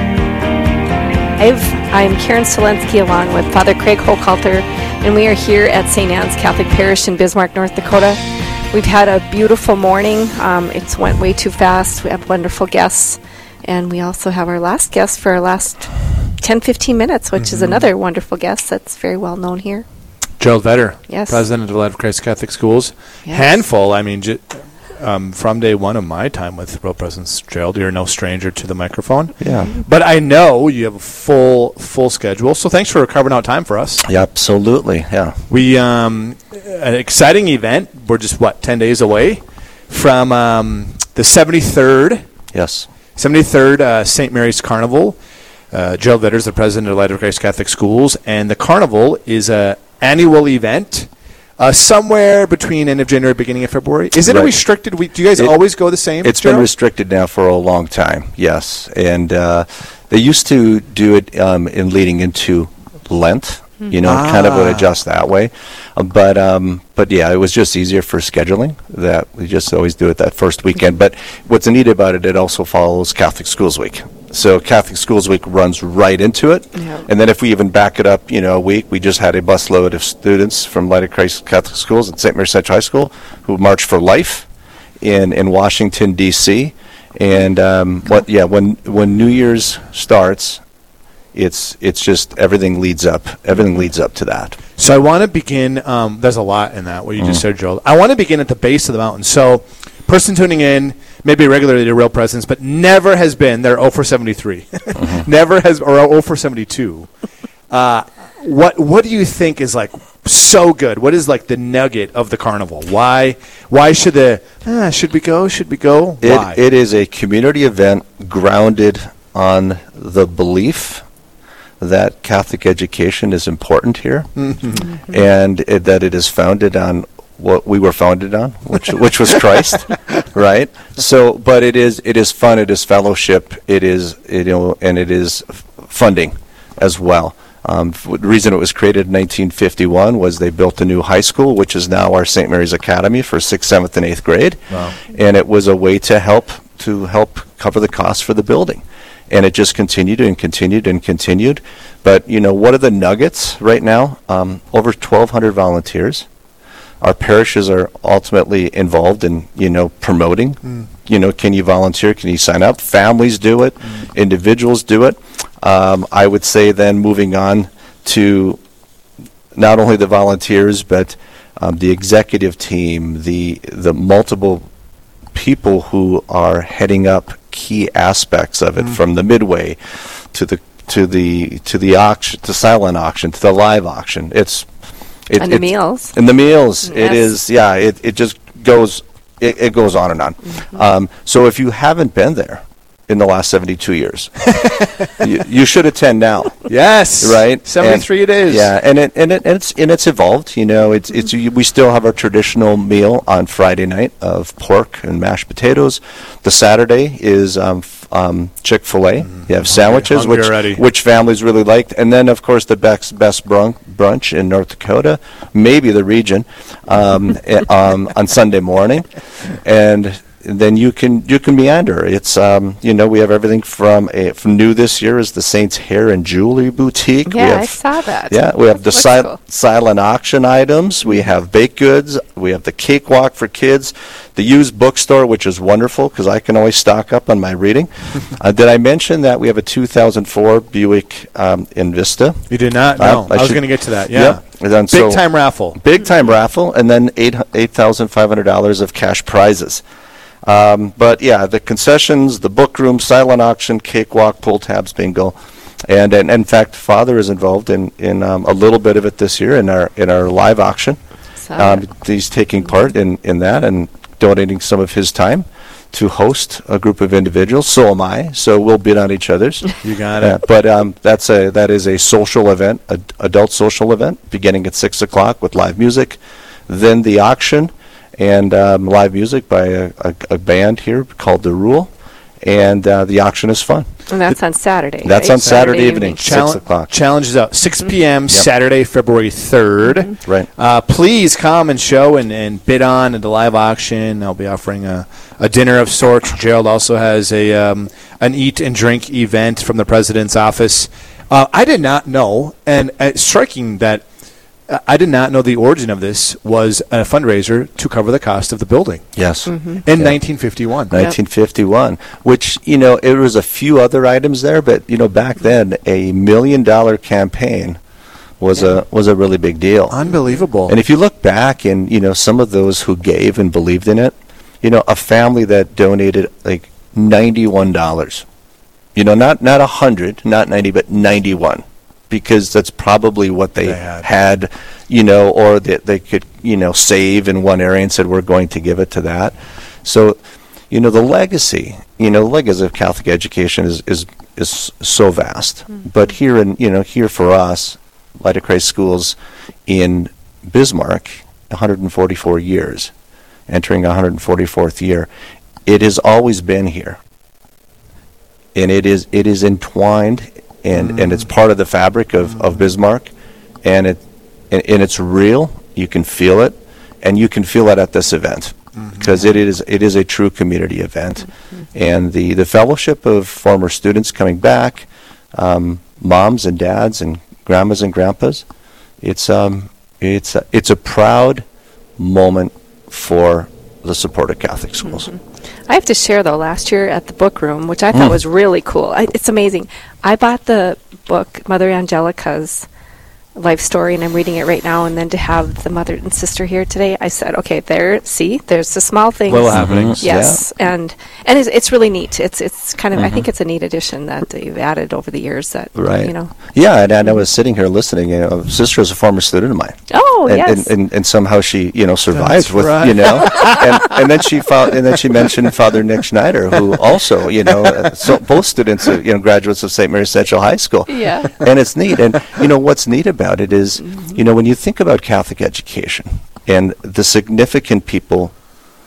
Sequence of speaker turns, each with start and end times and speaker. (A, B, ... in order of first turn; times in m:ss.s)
0:01.4-0:19.8 A
0:17.4-0:17.8 B
0:20.4-0:34.0 B
0:21.1-0:21.4 A
0:29.4-0:29.7 C
0:34.0-0:35.4 C
0:35.5-0:42.2 B
0:42.5-0:42.9 C
0:43.1-0:45.2 B
0:45.7-0:56.7 B
0:54.2-0:54.5 C
0:56.2-1:24.4 C
1:04.0-1:04.8 B
1:16.8-1:17.1 A
1:25.0-1:30.6 C
1:31.3-1:34.6 C
1:34.8-1:47.1 B
1:47.7-1:56.6 B
1:56.2-2:01.0 C
2:01.8-2:36.3 C
2:37.0-2:48.6 C
2:49.5-2:54.7 C
2:55.3-2:59.8 C
3:00.3-3:04.7 C
3:05.3-3:14.6 C
3:05.4-3:06.2 A
3:06.8-3:07.3 A
3:15.2-3:16.7 C
3:16.6-3:18.7 B
3:17.2-3:47.8 C
3:29.3-3:30.8 B
3:47.3-3:49.4 A
3:48.3-4:09.8 C
4:02.5-4:05.8 B
4:10.4-4:21.0 C
4:21.4-4:21.8 A
4:21.6-4:41.9 C
4:29.8-4:30.4 B
4:42.4-4:43.9 C
4:44.1-4:46.2 A
4:45.0-4:46.9 C
4:45.4-5:04.0 B
5:04.7-5:09.0 B
5:09.1-5:17.8 C
5:09.4-5:09.8 A
5:09.8-5:10.9 B
5:18.4-5:20.0 C
5:19.9-5:20.8 B
5:20.7-5:28.2 C
5:28.9-5:40.2 C
5:33.6-5:34.1 B
5:40.7-5:49.2 C
5:49.7-5:52.9 C
5:53.5-5:55.1 C
5:55.6-5:57.0 C
5:58.5-6:03.1 C
6:03.6-6:18.4 C
6:19.0-6:21.4 C
6:22.0-6:25.1 C
6:25.0-6:32.6 A
6:27.9-6:28.2 C
6:33.4-6:46.3 A
6:39.3-6:40.0 B
6:39.5-6:40.4 C
6:42.9-6:43.3 C
6:45.7-7:08.3 C
6:49.9-6:50.7 A
6:52.1-6:53.9 B
7:00.9-7:01.4 A